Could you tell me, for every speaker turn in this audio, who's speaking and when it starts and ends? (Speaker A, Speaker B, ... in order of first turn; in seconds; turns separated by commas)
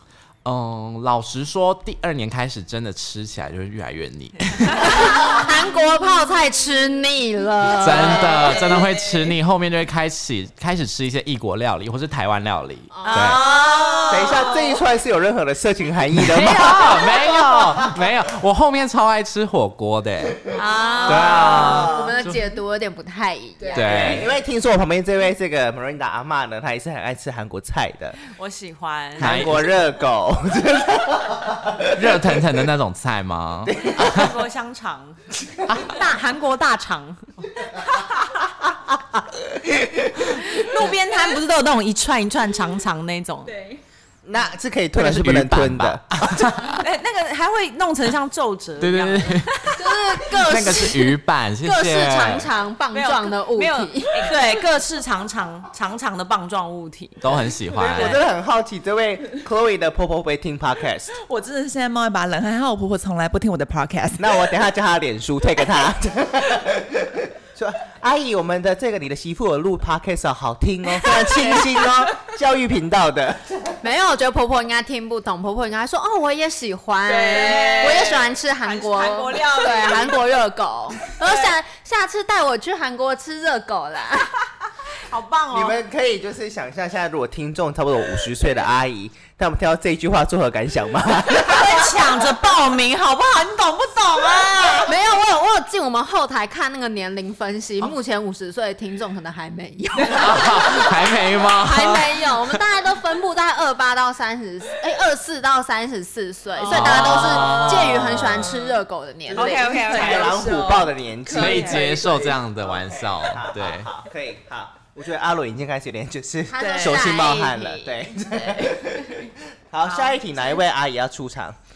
Speaker A: 0.4-5.0, Speaker B: 4.7-8.9, Speaker A: 7.7-13.4, Speaker B: 12.9-13.6, Speaker C: 13.0-14.5, Speaker D: 14.1-17.3, Speaker A: 16.1-20.5, Speaker C: 20.5-21.9, Speaker B: 20.9-24.1, Speaker A: 21.1-22.4, Speaker D: 21.2-22.2, Speaker A: 23.7-24.3, Speaker D: 23.8-28.2, Speaker C: 28.2-29.3, Speaker A: 29.2-29.7, Speaker D: 29.2-32.0, Speaker A: 31.9-34.3, Speaker D: 33.7-34.2, Speaker C: 33.8-35.2, Speaker C: 35.7-37.2, Speaker D: 39.1-39.9, Speaker C: 40.4-43.5, Speaker E: 43.5-43.8, Speaker D: 44.2-46.5, Speaker A: 44.9-46.8, Speaker C: 46.7-49.8, Speaker A: 48.8-52.5, Speaker B: 49.8-54.4, Speaker C: 52.9-58.2, Speaker A: 57.2-58.2, Speaker D: 57.8-61.1, Speaker E: 61.1-64.3, Speaker D: 64.2-73.8, Speaker B: 73.8-84.4, Speaker E: 77.1-78.2, Speaker C: 77.2-80.2, Speaker E: 79.4-80.1, Speaker C: 85.1-85.8, Speaker D: 85.5-92.3, Speaker C: 91.3-94.9, Speaker B: 94.8-101.0, Speaker A: 100.1-102.3, Speaker B: 101.5-110.0, Speaker A: 106.7-108.6, Speaker C: 106.8-107.1, Speaker E: 107.4-107.7, Speaker E: 109.3-112.4, Speaker C: 109.3-110.4, Speaker D: 109.8-111.9, Speaker A: 111.3-113.9, Speaker D: 113.2-121.6, Speaker B: 116.5-117.9, Speaker E: 116.6-116.9, Speaker C: 119.9-120.2